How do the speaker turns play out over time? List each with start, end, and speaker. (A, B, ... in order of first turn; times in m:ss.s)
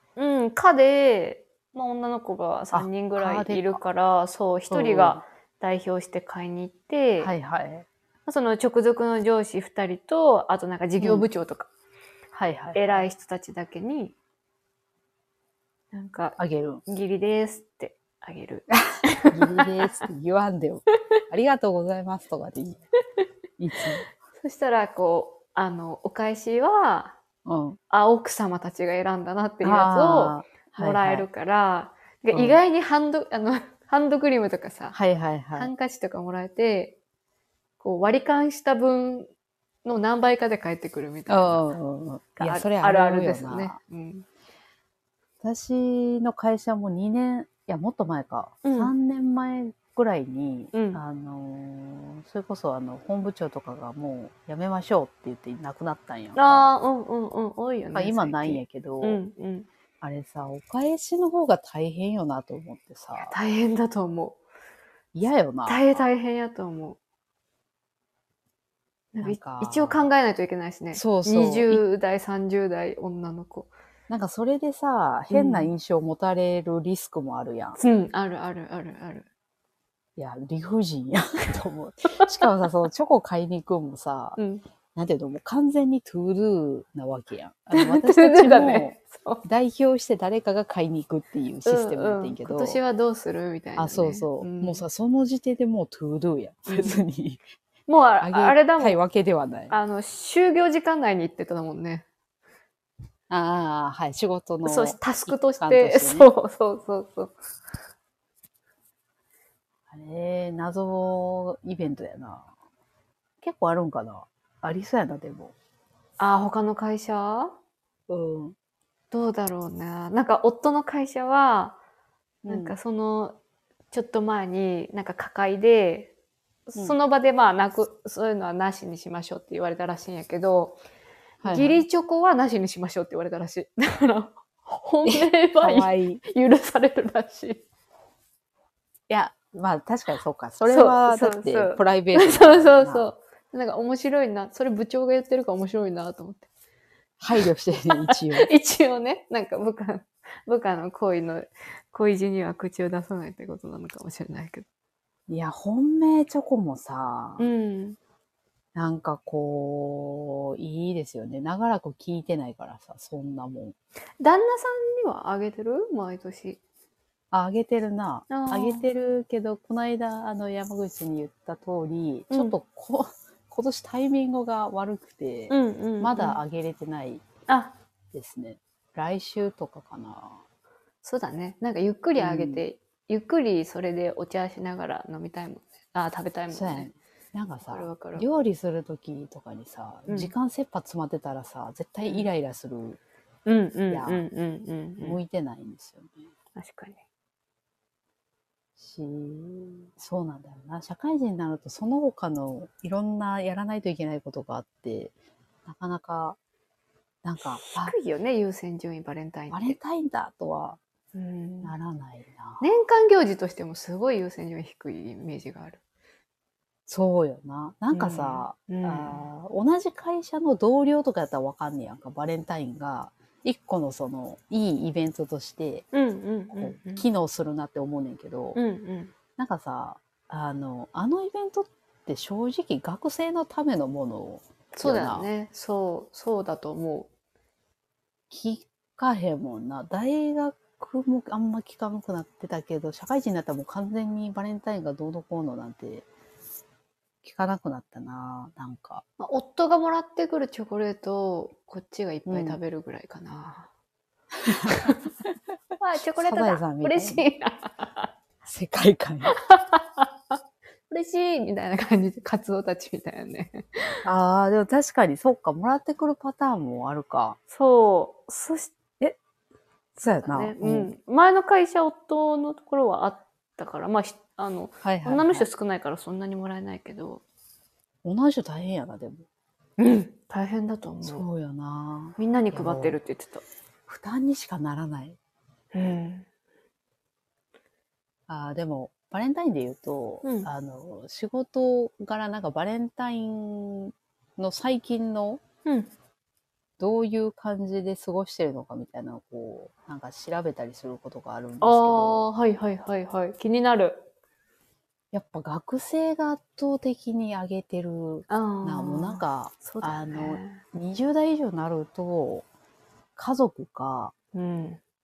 0:00.2-0:07.3 A
0:02.7-0:03.8 B
0:04.7-0:05.2 B
0:07.2-0:07.9 B
0:08.3-0:11.7 A
0:11.0-0:11.3 B
0:12.3-0:13.0 B
0:12.7-0:14.1 A
0:15.9-0:20.0 A
0:16.4-0:16.8 B
0:18.7-0:22.8 B
0:23.6-0:24.0 B
0:24.4-0:27.2 A
0:27.5-0:27.8 B
0:27.9-0:35.0 A
0:29.6-0:31.3 B
0:32.3-0:32.6 B
0:34.9-0:35.7 B
0:35.5-0:37.0 A
0:37.8-0:39.3 A
0:39.8-0:41.7 A
0:41.3-0:43.8 B
0:42.4-0:44.3 A
0:45.4-0:56.7 B
0:48.6-0:48.9 A
0:50.7-0:51.0 A
0:56.4-0:59.7 A
0:57.9-0:59.2 B
1:00.0-1:03.3 B
1:03.2-1:04.4 A
1:05.1-1:06.0 B
1:05.7-1:07.0 A
1:09.1-1:13.7 A
1:09.2-1:10.0 B
1:10.9-1:11.8 B
1:14.1-1:17.8 B
1:15.3-1:15.7 A
1:17.8-1:19.3 A
1:20.2-1:24.4 B
1:24.4-1:24.6 A
1:25.0-1:32.8 B
1:27.7-1:29.4 A
1:31.6-1:34.8 A
1:33.8-1:37.4 B
1:36.7-1:37.0 A
1:37.9-1:39.0 A
1:38.2-1:39.7 B
1:39.7-1:42.1 A
1:43.3-1:46.3 B
1:44.6-1:47.3 A
1:49.9-1:52.5 B
1:53.4-1:55.5 B
1:56.2-1:57.6 A
1:58.1-1:58.6 B
1:59.1-2:01.8 A
2:02.4-2:02.8 B
2:02.5-2:03.4 A
2:03.9-2:06.1 A
2:06.7-2:10.8 A
2:11.4-2:11.8 B
2:11.5-2:17.6 A
2:15.0-2:16.2 B
2:19.1-2:23.1 B
2:20.7-2:26.5 A
2:27.2-2:28.5 B
2:27.9-2:34.6 A
2:35.3-2:37.4 B
2:37.4-2:38.0 A
2:38.8-2:43.8 B
2:44.2-2:46.6 A
2:47.3-2:57.2 B
2:48.3-2:48.8 A
2:55.5-2:56.4 A
2:57.5-2:57.8 A
2:58.1-3:00.4 B
3:01.0-3:06.9 A
3:02.2-3:02.6 B
3:06.5-3:13.0 B
3:07.6-3:08.2 A
3:10.1-3:10.3 A
3:12.0-3:12.3 A
3:13.5-3:15.2 A
3:13.9-3:14.2 B
3:15.0-3:16.3 B
3:16.6-3:17.0 A
3:18.8-3:25.1 B
3:25.7-3:26.4 B
3:27.2-3:27.9 B
3:27.5-3:29.8 A
3:29.5-3:30.8 B
3:31.1-3:31.7 A
3:31.6-3:32.6 B
3:32.6-3:35.8 A
3:36.9-3:45.9 B
3:37.9-3:39.3 A
3:45.9-3:47.1 A
3:46.5-3:48.6 B
3:48.6-3:49.1 A
3:49.4-3:55.3 B
3:54.8-3:57.1 A
3:58.3-4:06.1 B
4:07.2-4:09.0 B
4:09.2-4:13.7 A
4:12.3-4:12.6 B
4:14.4-4:14.9 B
4:14.7-4:15.0 A
4:15.8-4:18.1 A
4:16.2-4:17.2 B
4:18.4-4:19.3 B
4:19.3-4:20.1 A
4:20.9-4:24.0 A
4:24.0-4:27.4 B
4:27.5-4:28.8 A
4:30.0-4:30.9 B
4:30.2-4:37.2 A
4:34.8-4:35.5 B
4:38.0-4:39.3 B
4:39.8-4:41.2 A
4:41.0-4:43.0 B
4:42.2-4:43.4 A
4:43.9-4:45.2 B
4:45.7-4:46.3 A
4:48.3-4:55.4 B
4:50.2-4:50.5 A
4:56.8-5:02.3 B
5:01.6-5:04.1 A
5:05.1-5:12.5 B
5:08.3-5:10.6 A
5:13.2-5:14.1 B
5:14.3-5:14.8 A